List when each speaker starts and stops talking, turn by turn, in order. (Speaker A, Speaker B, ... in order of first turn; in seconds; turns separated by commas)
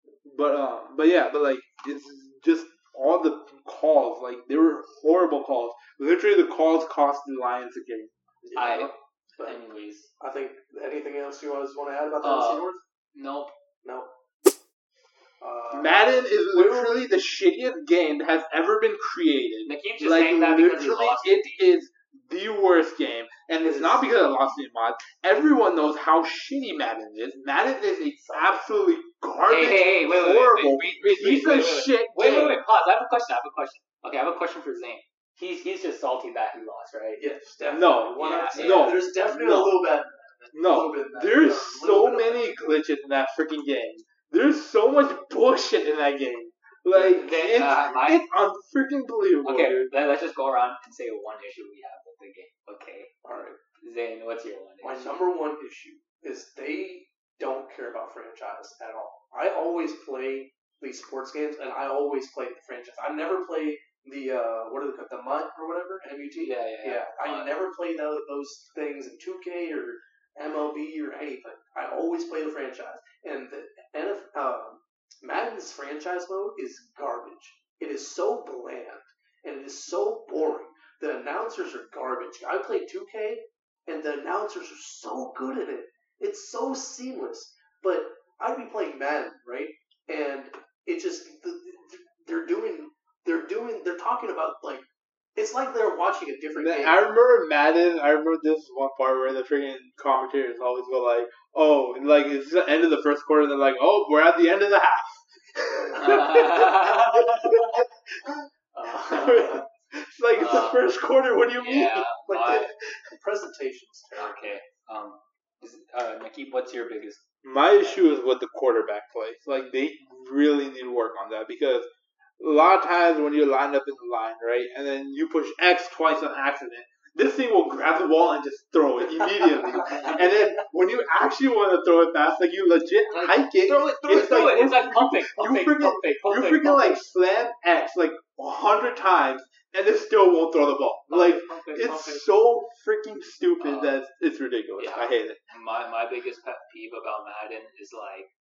Speaker A: 0.2-8.1, Speaker B: 8.4-9.6, Speaker C: 8.6-10.1, Speaker B: 10.2-12.8, Speaker C: 12.2-13.5, Speaker B: 13.8-14.1, Speaker B: 15.4-17.1, Speaker A: 15.7-32.6, Speaker C: 19.7-21.6, Speaker B: 23.6-24.0, Speaker C: 29.5-37.2, Speaker B: 37.2-42.5, Speaker A: 37.7-39.8, Speaker C: 38.2-39.0, Speaker A: 40.5-49.9, Speaker C: 47.0-48.3, Speaker C: 49.4-53.1, Speaker B: 53.2-53.6, Speaker C: 53.8-55.2, Speaker B: 54.8-97.0, Speaker C: 66.4-67.5, Speaker A: 96.5-108.5, Speaker C: 105.9-107.8, Speaker C: 108.7-109.6, Speaker A: 109.1-112.6, Speaker C: 110.3-110.9, Speaker C: 111.6-112.7, Speaker B: 112.3-112.6, Speaker B: 113.2-114.6, Speaker C: 114.2-117.2, Speaker A: 117.4-145.4, Speaker C: 133.1-137.0, Speaker C: 141.1-142.3, Speaker C: 143.6-144.0, Speaker C: 144.8-148.3